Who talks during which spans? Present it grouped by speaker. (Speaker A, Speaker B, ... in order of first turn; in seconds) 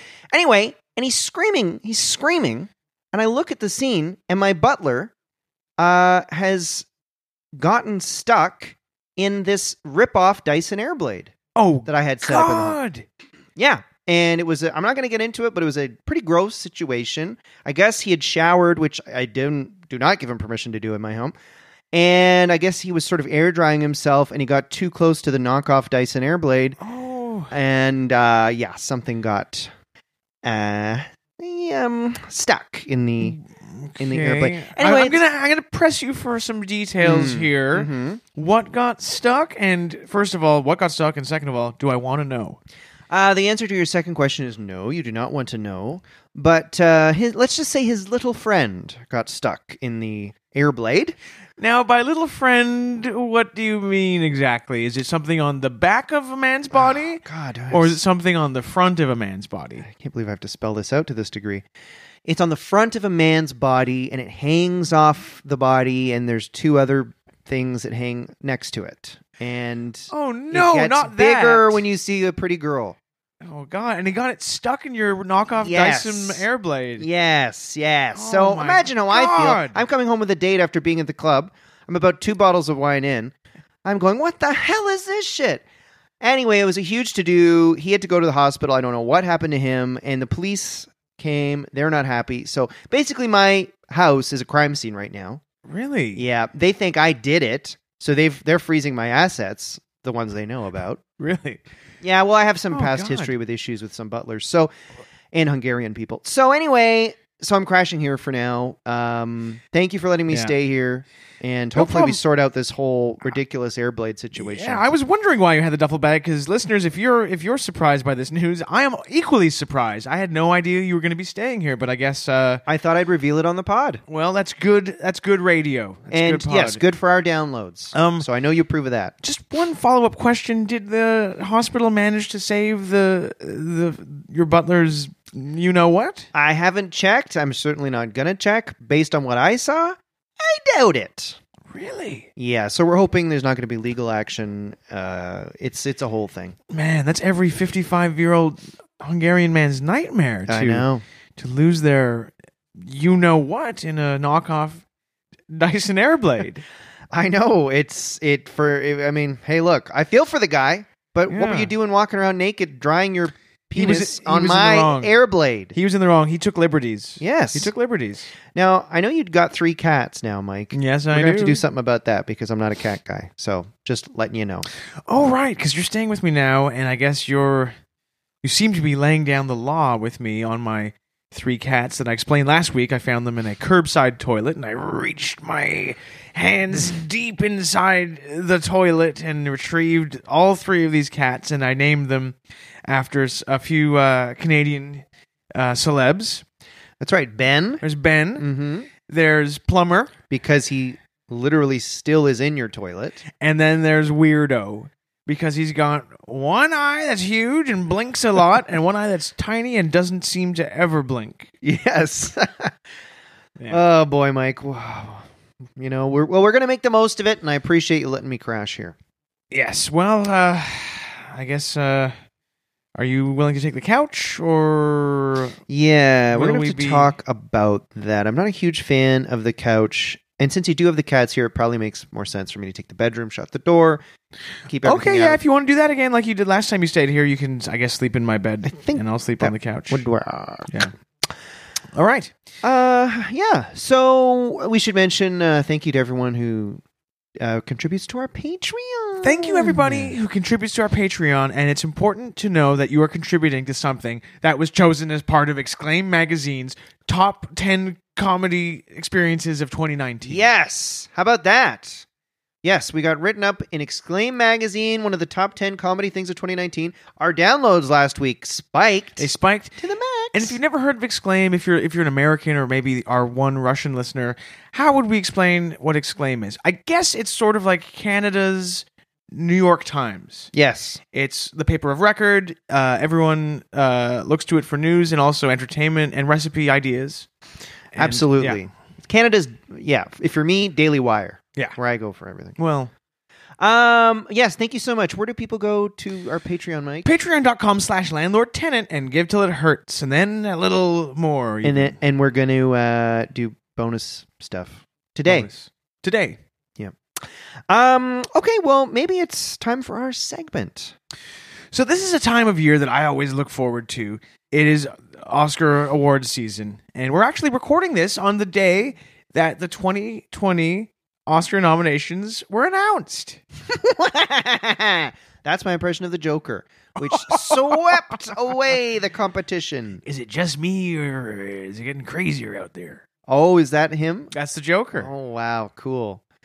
Speaker A: 0.3-5.1, 5.8-6.9, 7.6-11.3, 11.9-12.8, 13.6-21.4, 21.9-26.8, 27.5-29.7, 30.4-33.4, 34.0-35.2, 37.0-38.2, 43.1-51.1, 56.7-58.0, 59.9-61.6, 62.2-73.0, 75.6-76.5, 77.0-83.3, 83.8-85.6, 86.2-95.4, 96.2-101.0, 102.0-104.7, 105.3-114.8, 122.7-124.0, 126.1-129.1, 136.3-141.4, 142.4-146.6, 150.5-151.0, 157.1-165.7, 167.2-167.7, 168.5-174.7, 197.0-197.8, 198.4-198.9, 200.3-203.2, 211.6-212.7, 213.7-219.0, 225.7-234.0, 234.7-235.4, 238.7-240.7, 242.6-246.8, 247.4-250.1, 260.2-262.1, 262.6-270.6, 280.5-281.0, 288.0-292.6, 293.6-297.1, 301.6-305.5, 306.8-310.9, 323.7-330.0, 333.3-334.3, 335.0-336.2
Speaker B: 11.6-13.1, 26.8-27.5, 33.2-42.6, 51.6-59.9, 70.1-71.8, 73.4-77.1, 78.2-79.8, 95.7-96.2, 101.2-101.6, 102.7-103.3, 110.3-110.5, 111.8-112.2, 114.4-122.6, 124.1-126.8, 127.9-128.3, 129.2-136.3, 141.7-142.3, 146.7-150.9, 151.4-154.8, 155.5-156.6, 161.3-161.7, 163.8-165.1, 165.7-168.3, 170.7-171.6, 175.1-177.7, 178.4-195.0, 195.6-196.4, 197.8-198.5, 199.1-200.1, 203.4-211.5, 219.5-222.2, 223.0-225.6, 226.3-227.1, 234.8-240.1, 241.9-242.3, 249.2-260.5, 269.2-269.8, 270.3-280.5, 281.1-287.3, 287.9-288.6, 292.6-292.9, 297.1-302.0, 305.3-306.4, 311.7-323.4, 327.0-328.2, 330.1-333.0, 334.3-335.1